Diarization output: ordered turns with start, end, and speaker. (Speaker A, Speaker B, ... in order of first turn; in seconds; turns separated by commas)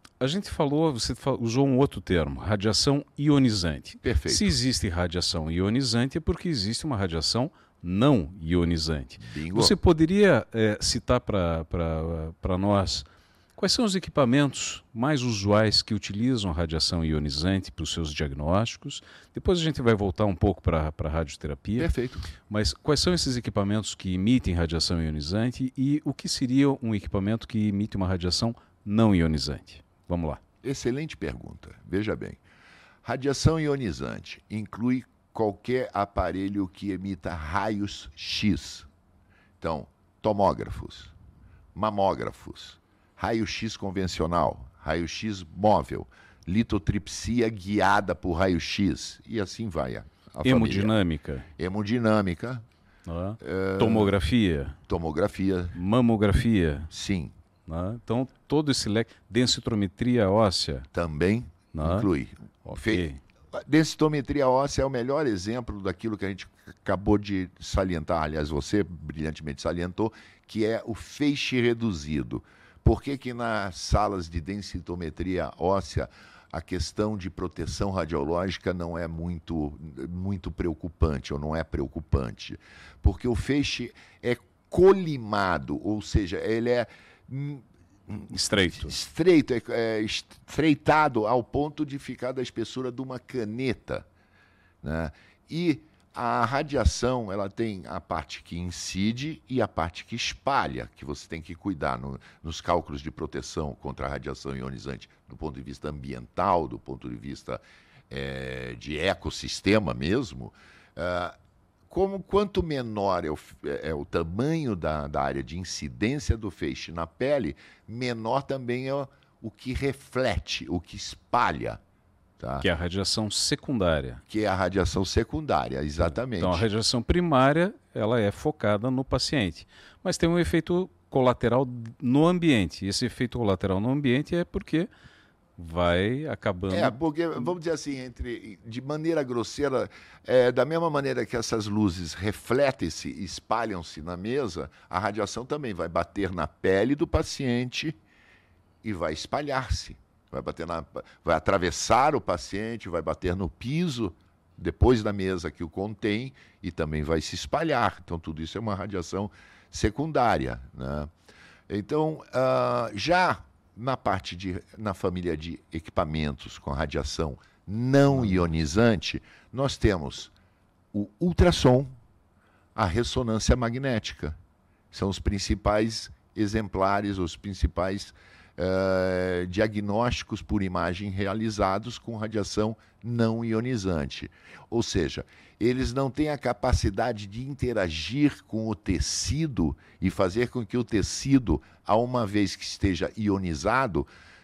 Speaker A: 0.2-21.9, Speaker B: 4.0-4.5, Speaker B: 9.2-9.7, Speaker B: 21.8-22.2, Speaker A: 22.4-30.4, Speaker B: 30.6-32.4, Speaker B: 33.0-38.9, Speaker B: 39.6-41.1, Speaker B: 41.7-50.9, Speaker A: 50.4-51.5, Speaker B: 51.6-52.6, Speaker A: 53.0-54.8, Speaker B: 53.4-54.1, Speaker B: 54.9-55.8, Speaker A: 55.7-56.9, Speaker B: 56.9-57.3, Speaker A: 57.7-60.9, Speaker B: 60.9-94.1, Speaker A: 61.7-62.1, Speaker A: 62.6-63.2, Speaker A: 88.3-89.0, Speaker B: 94.8-111.3, Speaker B: 111.9-121.8, Speaker B: 122.4-122.7, Speaker A: 122.6-124.2, Speaker B: 124.3-126.7, Speaker A: 126.0-134.9, Speaker A: 135.6-137.0, Speaker B: 136.7-147.9, Speaker B: 148.8-161.1, Speaker B: 161.7-170.3, Speaker A: 168.1-168.5, Speaker B: 170.9-171.9, Speaker B: 172.7-174.4, Speaker B: 174.9-194.1